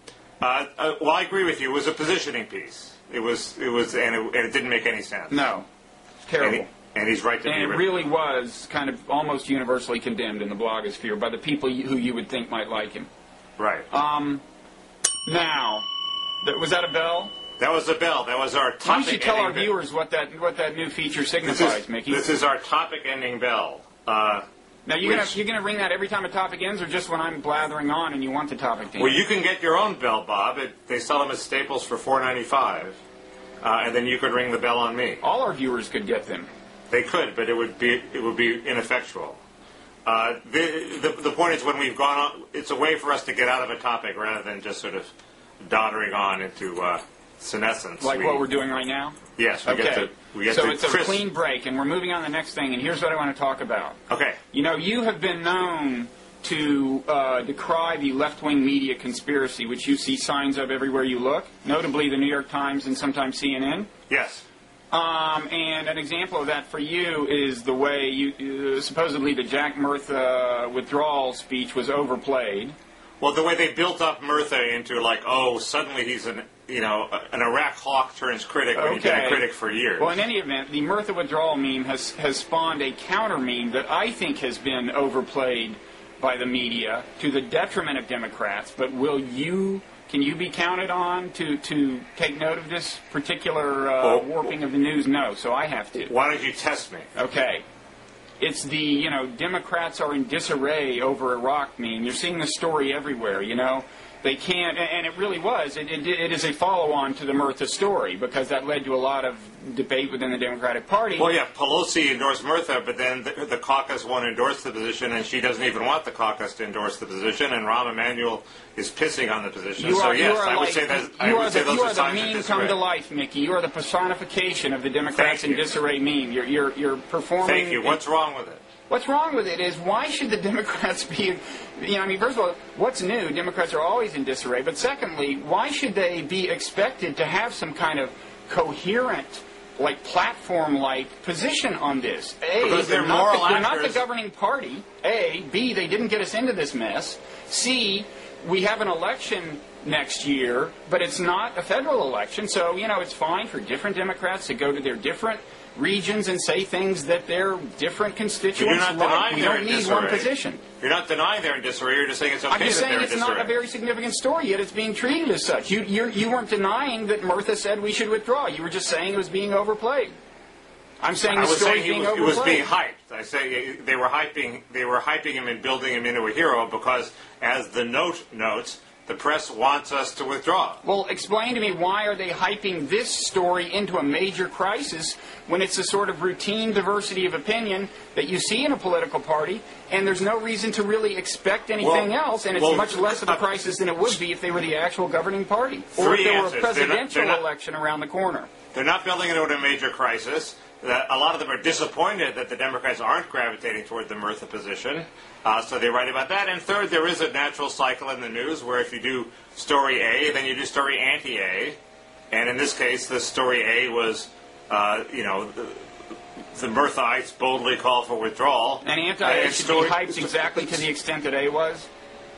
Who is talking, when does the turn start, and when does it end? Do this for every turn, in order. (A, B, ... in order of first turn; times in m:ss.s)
0:00.4-0:05.5 A
0:05.3-0:05.7 B
0:06.3-0:06.7 B
0:06.4-0:07.9 A
0:07.4-0:13.1 B
0:13.6-0:13.9 A
0:13.9-0:14.4 B
0:15.3-0:15.9 B
0:16.4-0:17.3 B
0:17.6-0:19.7 A
0:18.8-0:22.2 B
0:21.4-0:24.4 A
0:24.9-0:29.2 B
0:25.0-0:25.3 A
0:29.0-0:33.0 A
0:33.6-0:35.2 A
0:35.2-0:36.5 B
0:36.9-0:39.4 A
0:40.1-0:45.1 A
0:45.6-0:48.4 A
0:48.0-0:54.0 B
0:49.4-0:51.2 A
0:54.1-0:54.4 A
0:54.5-1:03.9 B
1:04.1-1:04.4 A
1:04.9-1:12.8 B
1:13.2-1:20.1 A
1:18.8-1:19.4 B
1:20.0-1:36.1 B
1:34.0-1:34.5 A
1:36.1-1:37.1 A
1:37.2-1:37.6 B
1:38.4-1:51.3 B
1:51.2-2:02.8 A
1:59.8-2:08.0 B
2:05.2-2:05.8 A
2:07.4-2:08.6 A
2:08.9-2:40.6 B
2:22.6-2:24.0 A
2:38.6-2:40.3 A
2:40.8-2:43.5 A
2:42.5-2:50.1 B
2:51.0-2:52.7 B
2:51.3-3:00.8 A
3:00.8-3:18.5 B
3:11.8-3:13.4 A
3:16.0-3:17.4 A
3:18.7-3:31.8 A
3:32.3-3:35.9 A
3:36.6-3:40.8 A
3:38.8-3:41.9 B